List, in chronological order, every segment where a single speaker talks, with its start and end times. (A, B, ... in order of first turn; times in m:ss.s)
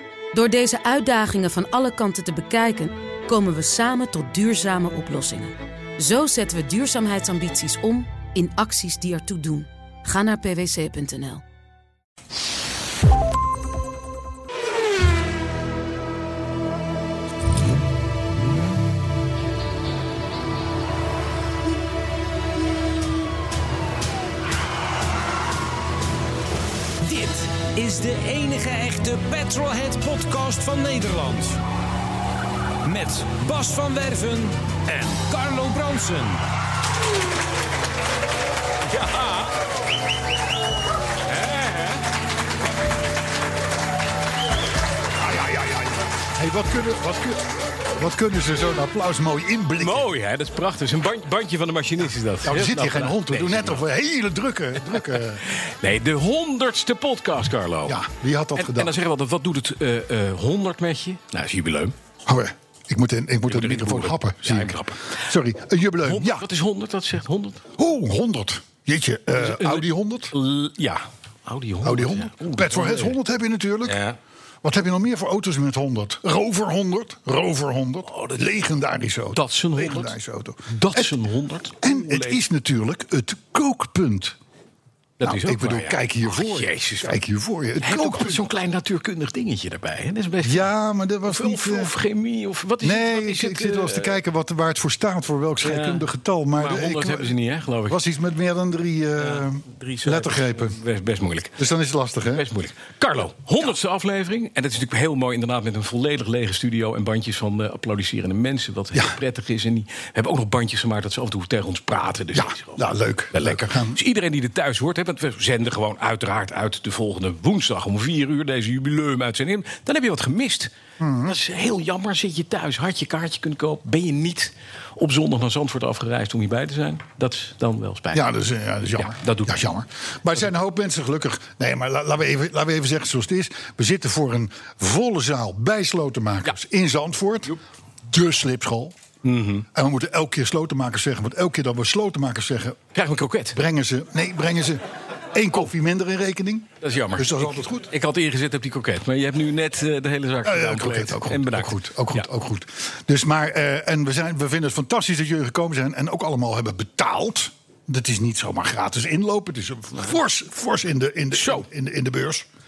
0:00.3-0:11.4 A
0:27.0-0:31.6 B
0:32.8-0:36.4 B
0:38.9-0:39.6 C
0:41.2-0:42.0 C
0:45.2-0:50.0 D
0:49.8-0:53.8 C
0:52.4-0:55.4 D
0:55.4-0:58.0 C
0:57.8-0:59.0 D
0:58.6-1:01.9 C
1:02.2-1:06.4 D
1:03.5-1:05.2 C
1:06.0-1:07.6 C
1:07.8-1:10.3 D
1:09.4-1:13.1 C
1:11.8-1:14.0 D
1:13.8-1:14.2 C
1:14.6-1:21.2 D
1:19.3-1:20.1 C
1:20.7-1:22.4 C
1:21.8-1:24.4 D
1:25.2-1:27.2 C
1:25.2-1:28.4 D
1:27.8-1:30.7 C
1:30.4-1:31.9 D
1:31.3-1:34.2 C
1:32.8-1:37.3 D
1:35.6-1:38.0 C
1:37.9-1:40.8 D
1:39.2-1:41.7 C
1:41.6-1:42.5 D
1:42.3-2:00.7 C
1:52.3-1:54.0 D
2:01.0-2:01.4 D
2:01.2-2:08.3 C
2:08.1-2:17.6 D
2:09.0-2:09.6 C
2:18.1-2:19.0 D
2:19.2-2:19.7 C
2:19.7-2:22.8 D
2:22.9-2:23.6 C
2:23.5-2:27.9 D
2:26.8-2:32.2 C
2:30.4-2:42.4 D
2:41.3-2:41.6 C